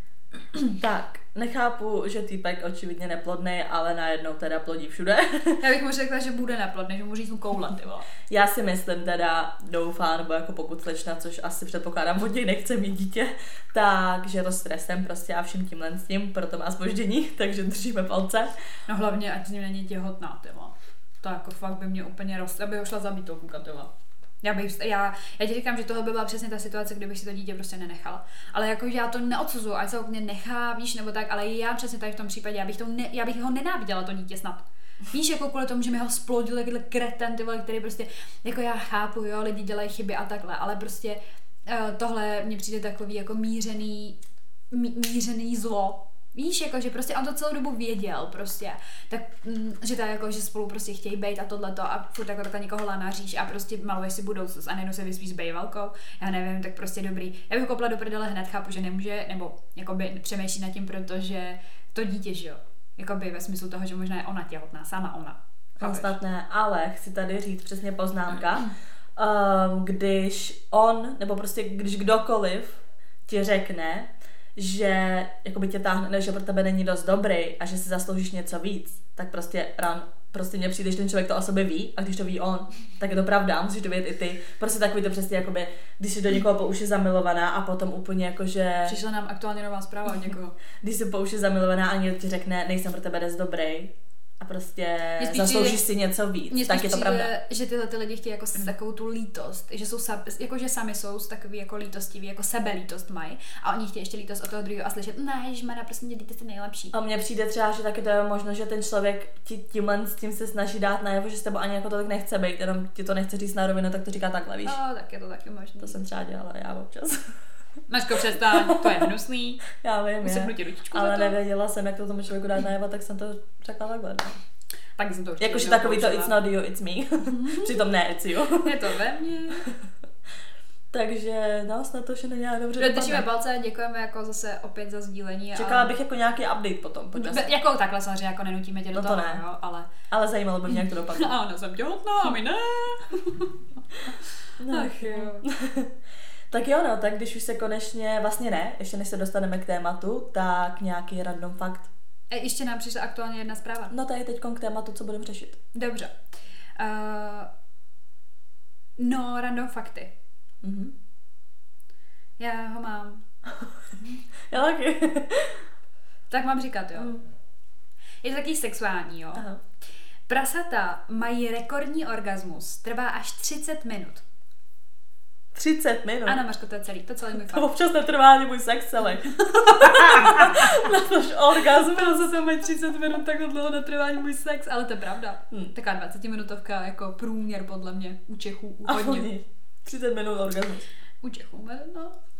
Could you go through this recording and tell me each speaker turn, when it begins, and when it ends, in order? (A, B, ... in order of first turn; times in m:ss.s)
0:00.8-0:05.6 A
0:05.6-0:08.1 B
0:08.3-0:18.5 A
0:18.9-0:23.9 B
0:24.4-0:44.2 B
0:44.7-1:06.2 B
1:05.8-1:29.0 A
1:28.8-1:30.6 B
1:30.8-1:37.3 A
1:35.2-1:35.8 B
1:36.5-1:46.9 B
1:46.9-1:54.8 A
1:54.6-1:55.9 B
1:55.8-1:57.3 A
1:57.9-1:59.6 B
1:58.3-1:59.1 A
1:59.7-2:04.4 A
2:00.2-2:01.4 B
2:05.0-2:06.4 B
2:05.4-2:08.9 A
2:07.2-2:07.8 B
2:08.6-2:09.7 B
2:10.9-2:13.2 A
2:12.8-2:15.9 B
2:15.6-2:17.5 A
2:17.2-2:19.9 B
2:18.9-2:19.4 A
2:20.1-2:21.3 A
2:21.1-2:24.2 B
2:24.6-2:25.9 A
2:24.7-2:25.5 B
2:26.5-2:31.9 A
2:32.3-2:33.9 B
2:33.9-2:35.6 A
2:35.7-2:36.2 B
2:36.8-2:37.5 B
2:39.0-2:40.1 B
2:40.6-2:40.9 A
2:42.4-2:43.2 B
2:44.5-2:45.6 A
2:46.3-2:47.1 B
2:47.0-2:47.2 A
2:48.2-2:49.5 B
2:50.3-2:54.2 B
2:55.6-2:56.4 A
2:56.3-2:57.7 B
2:57.4-3:02.5 A
2:59.4-3:00.9 B
3:01.6-3:09.3 B
3:08.8-3:10.9 A
3:11.2-3:12.2 B